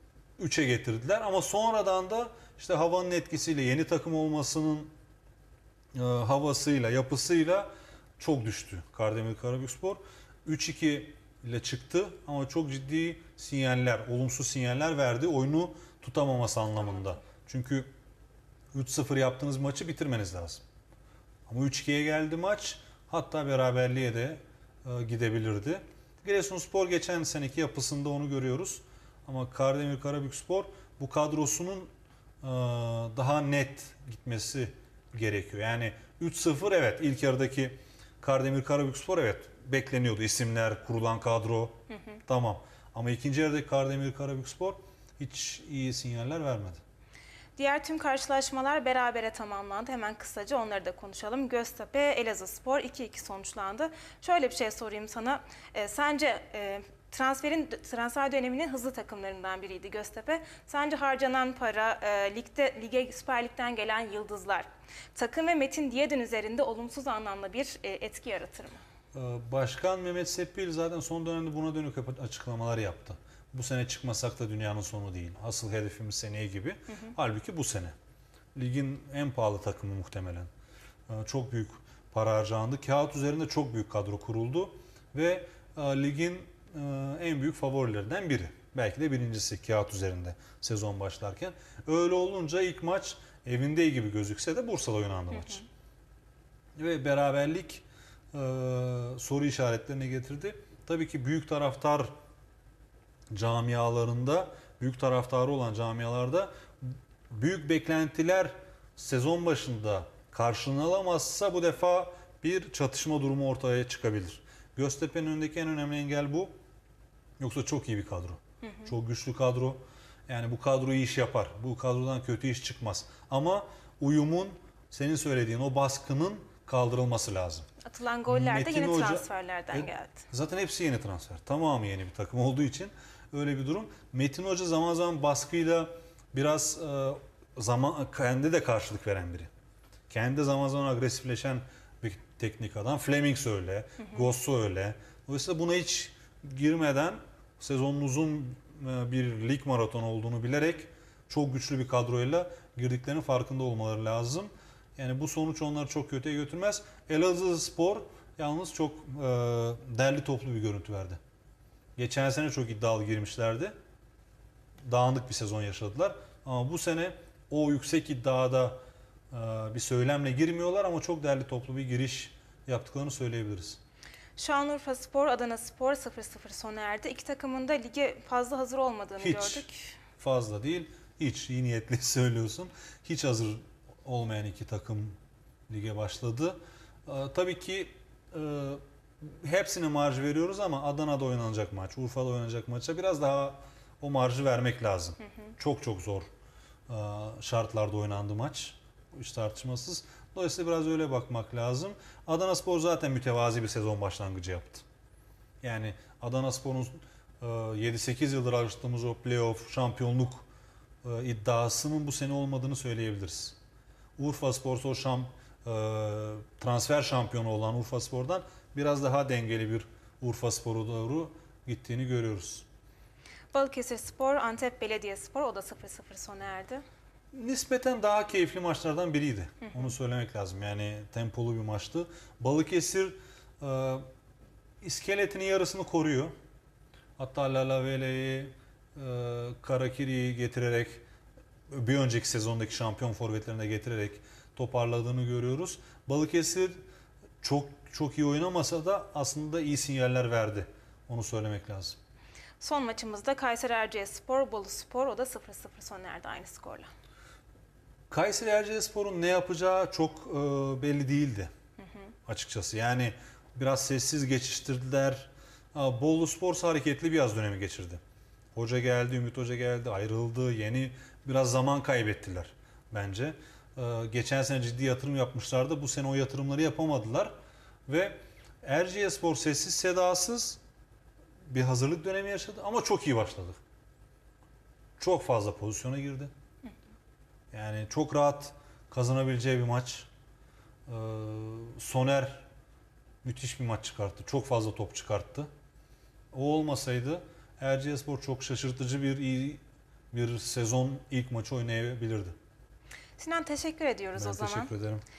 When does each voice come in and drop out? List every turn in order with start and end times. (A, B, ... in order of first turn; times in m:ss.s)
0:00.4-0:04.9 A
0:05.9-0:17.9 A
0:18.7-0:20.6 A
0:21.5-0:31.9 A
0:32.4-0:41.8 A
0:42.3-0:46.8 A
0:47.6-1:08.8 B
1:09.1-1:17.9 A
1:18.5-1:20.5 A
1:21.1-1:35.6 A
1:35.3-1:35.6 B
1:36.8-1:42.1 A
1:43.3-1:56.5 A
1:57.4-2:07.6 A
2:07.8-2:10.2 B
2:08.3-2:19.5 A
2:20.1-2:41.2 A
2:42.0-2:43.7 A
2:44.8-2:53.8 A
2:54.4-2:59.9 B
2:59.2-2:59.6 A
3:00.2-3:05.2 A
3:05.7-3:16.3 A
3:16.9-3:24.8 A
3:25.6-3:30.4 A
3:31.0-3:33.6 A
3:34.2-3:42.6 A
3:43.5-3:46.8 B
3:47.3-3:54.0 A
3:54.8-3:56.3 A
3:57.2-4:01.0 A
4:01.7-4:06.8 A
4:07.4-4:12.0 A
4:12.6-4:16.9 B
4:18.1-4:21.5 A
4:22.2-4:28.0 A
4:28.5-4:37.3 A
4:37.9-4:40.6 A
4:41.5-4:43.6 A
4:45.0-4:46.3 A
4:47.5-4:50.1 A
4:50.9-4:52.5 A
4:53.2-4:55.5 A
4:56.3-5:02.4 A
5:03.2-5:04.7 B
5:04.2-5:05.0 A